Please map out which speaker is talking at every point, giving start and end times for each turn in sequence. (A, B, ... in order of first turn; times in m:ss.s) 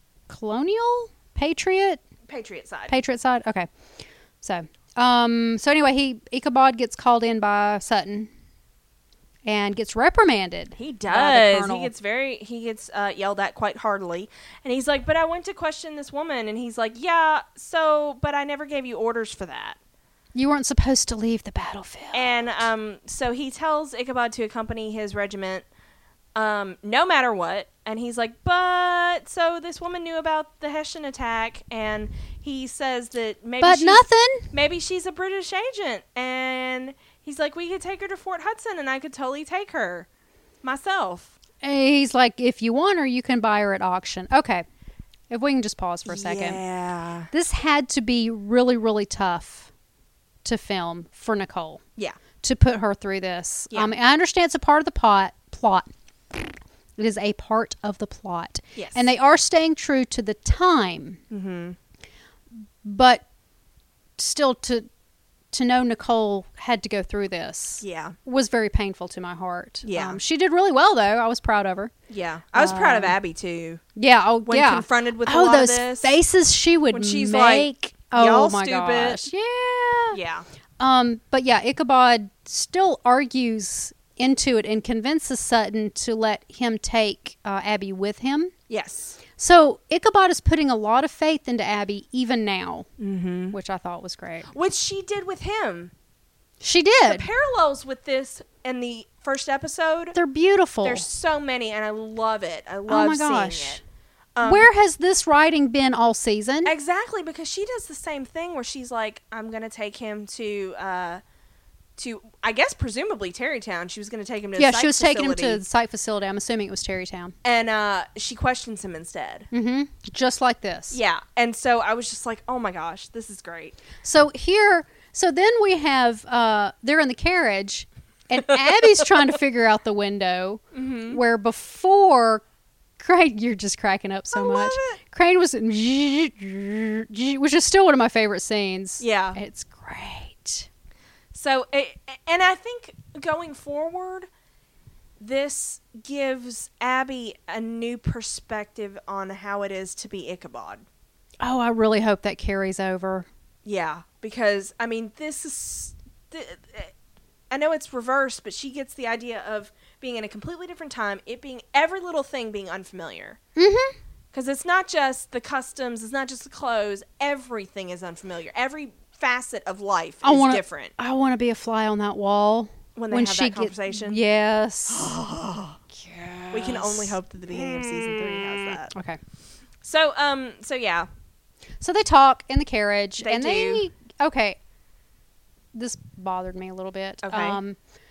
0:00.3-0:02.0 A
0:02.3-0:02.9 B
0:02.9-0:03.7 A
0:04.4-0:08.3 A
0:09.4-0:11.9 A
0:10.8-0:19.8 B
0:20.3-0:22.5 A
0:22.1-0:25.7 B
0:26.4-0:40.1 B
0:33.6-0:34.5 A
0:40.6-0:41.4 B
0:41.6-0:44.7 A
0:45.3-0:46.6 A
0:46.1-0:47.3 B
0:47.3-0:49.7 A
0:50.4-0:51.8 A
0:52.4-0:56.4 A
0:57.0-1:01.2 A
0:58.8-0:59.1 B
1:01.3-1:01.8 B
1:02.8-1:03.2 A
1:04.2-1:04.9 A
1:05.5-1:11.9 A
1:07.8-1:08.2 B
1:09.8-1:10.2 B
1:12.1-1:13.8 B
1:12.6-1:13.2 A
1:14.0-1:20.2 A
1:14.5-1:16.1 B
1:16.9-1:19.2 B
1:20.1-1:20.4 B
1:20.8-1:28.5 A
1:28.7-1:29.2 B
1:29.4-1:32.9 A
1:33.0-1:33.6 B
1:33.5-1:34.5 A
1:34.5-1:35.9 B
1:36.6-1:37.3 A
1:37.0-1:40.2 B
1:40.2-1:41.0 A
1:40.8-1:43.8 B
1:42.9-1:43.8 A
1:44.4-1:44.7 B
1:44.4-1:46.7 A
1:46.6-1:51.2 B
1:52.0-1:55.6 B
1:54.6-1:57.4 A
1:57.4-1:59.5 B
1:59.5-2:01.0 A
2:00.9-2:03.8 B
2:04.0-2:12.4 A
2:10.7-2:11.2 B
2:13.0-2:20.7 A
2:14.3-2:15.0 B
2:19.0-2:19.4 B
2:21.3-2:24.3 B
2:25.2-2:30.8 B
2:31.4-2:33.3 A
2:33.6-2:36.9 B
2:37.5-2:43.4 B
2:43.6-2:44.0 A
2:44.3-2:50.9 B
2:50.2-2:55.2 A
2:53.0-2:54.2 B
2:54.9-2:55.8 B
2:55.9-2:59.2 A
2:56.5-2:58.9 B
2:59.8-3:01.1 B
3:01.8-3:04.6 A
3:03.2-3:03.8 B
3:05.7-3:07.8 A
3:07.2-3:07.6 B